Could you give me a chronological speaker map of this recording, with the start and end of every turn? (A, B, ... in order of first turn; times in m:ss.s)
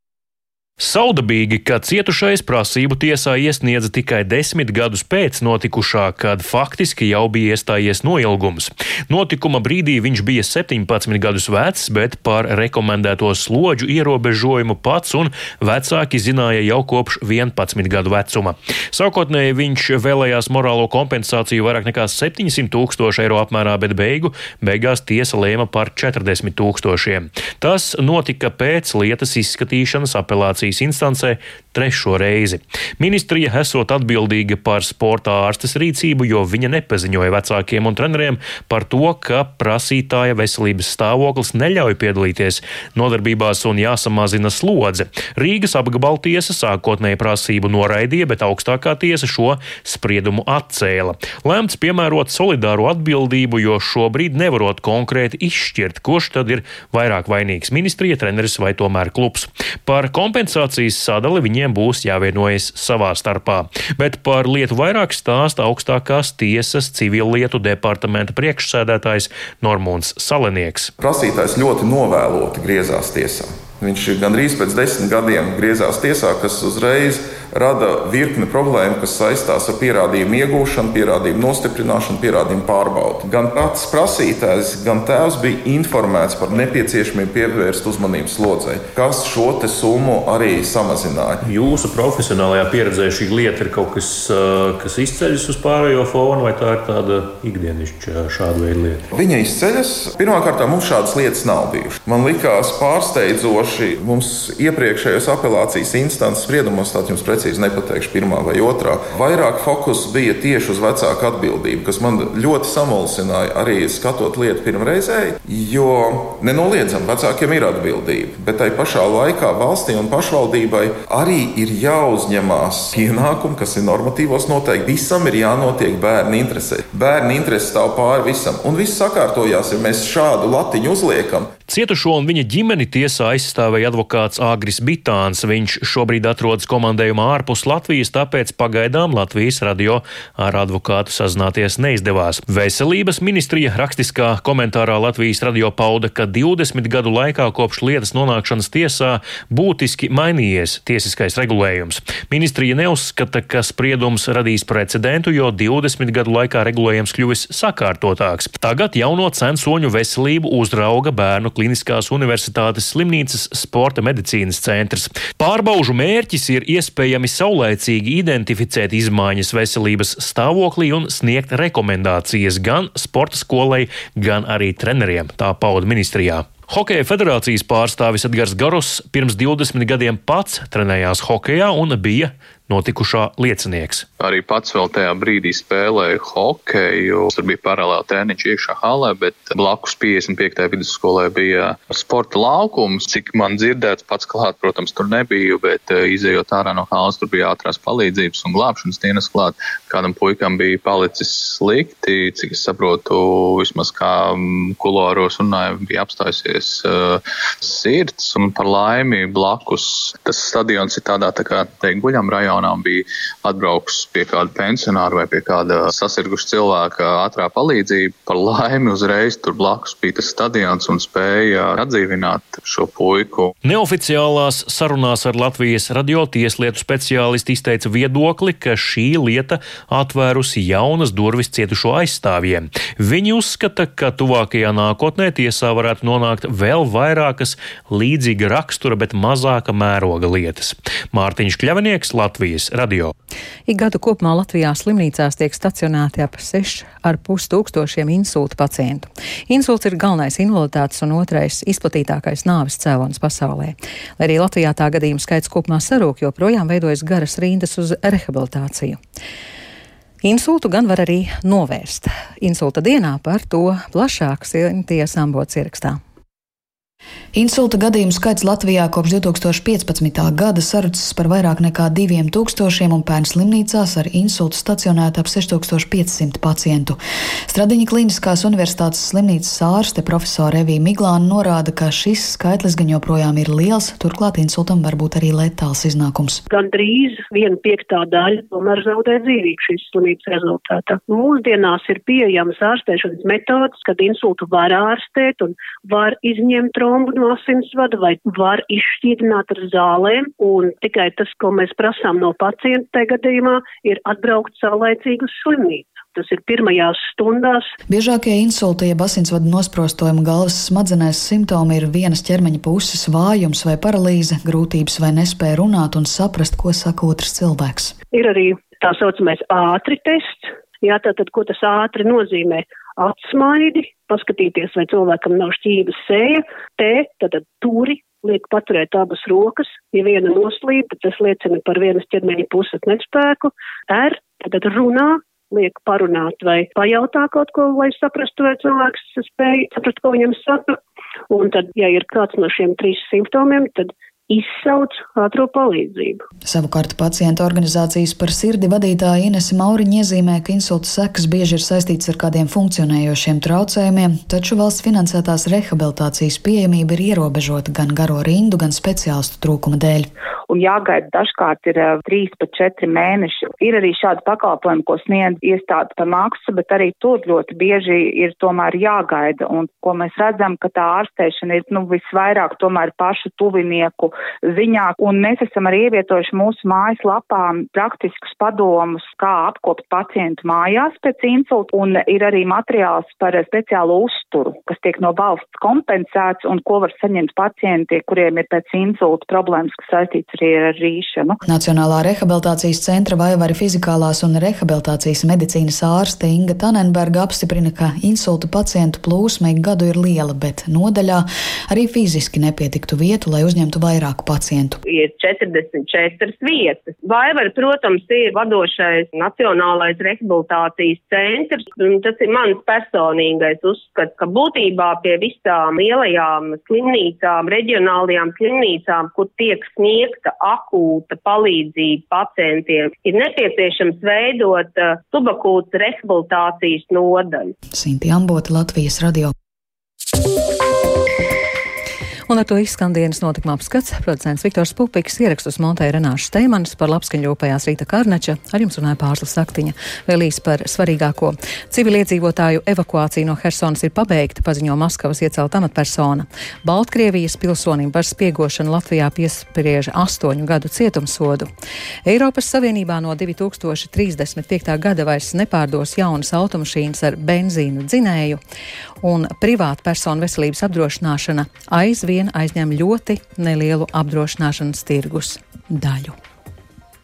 0:00.8-1:10.9 A
1:11.0-1:31.4 B
1:31.4-1:39.0 A
1:39.1-2:11.5 B
2:11.7-3:04.0 A
3:04.2-3:43.5 C
3:43.6-4:03.1 A
4:03.7-4:19.0 D
4:20.2-4:26.0 D
4:27.3-4:46.4 E
4:46.5-5:07.7 F
5:07.9-5:17.9 E
5:18.1-5:40.8 F
5:41.3-5:46.2 F
5:46.4-6:00.1 E
6:00.5-6:31.4 G
6:31.5-6:44.8 E
6:44.8-7:07.5 H
7:07.7-7:09.3 E
7:12.3-7:31.5 D
7:32.0-7:38.4 D
7:39.0-7:46.1 D